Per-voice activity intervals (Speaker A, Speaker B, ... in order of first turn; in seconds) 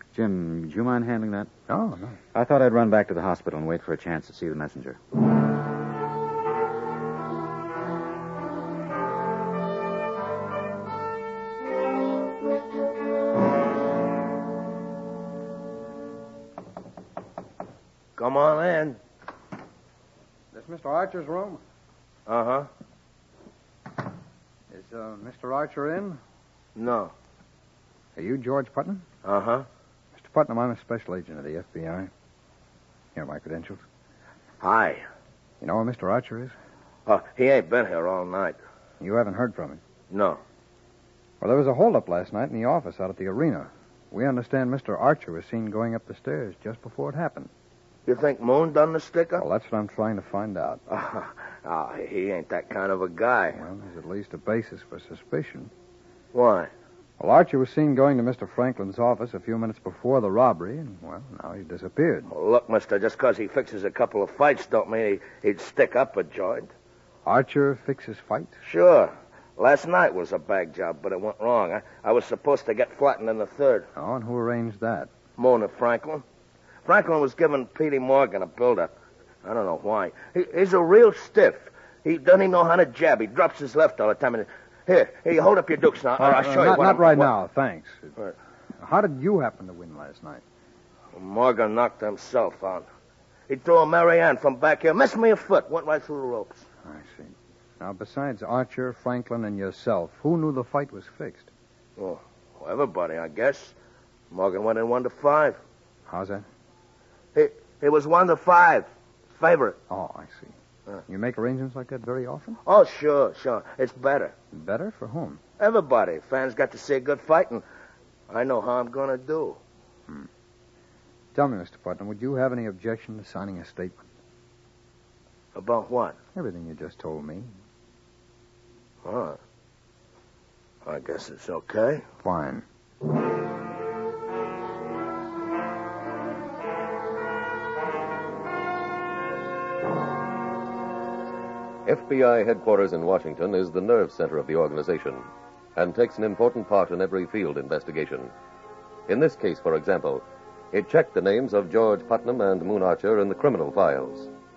Speaker A: 0.1-1.5, 2.3-5.0
Speaker B: 1.7-2.2, 20.5-21.6, 24.7-26.2, 28.2-29.0, 30.2-32.1, 33.1-33.8, 35.6-36.5, 39.0-39.8, 41.4-47.5, 49.4-50.8, 53.5-55.7, 57.2-62.3, 67.2-68.6, 74.0-75.1, 86.2-88.1, 88.8-90.4, 96.8-101.5, 106.1-106.5, 109.9-110.5, 111.1-112.6, 114.5-115.4, 121.3-124.0, 126.3-127.5, 132.2-132.6
Speaker C: 18.2-19.0, 22.3-22.7, 26.8-27.1, 29.2-29.7, 34.6-35.0, 37.1-38.6, 40.1-40.4, 48.1-49.5, 50.9-53.6, 56.3-56.7, 62.3-66.7, 68.6-73.9, 75.4-76.2, 76.8-78.9, 79.4-87.3, 91.1-92.8, 93.5-96.7, 102.0-103.8, 104.3-105.6, 107.3-109.8, 112.7-114.3, 115.6-117.6, 118.3-119.6, 125.5-126.2, 129.0-129.4, 130.8-132.1
Speaker D: 141.9-148.3, 149.1-154.3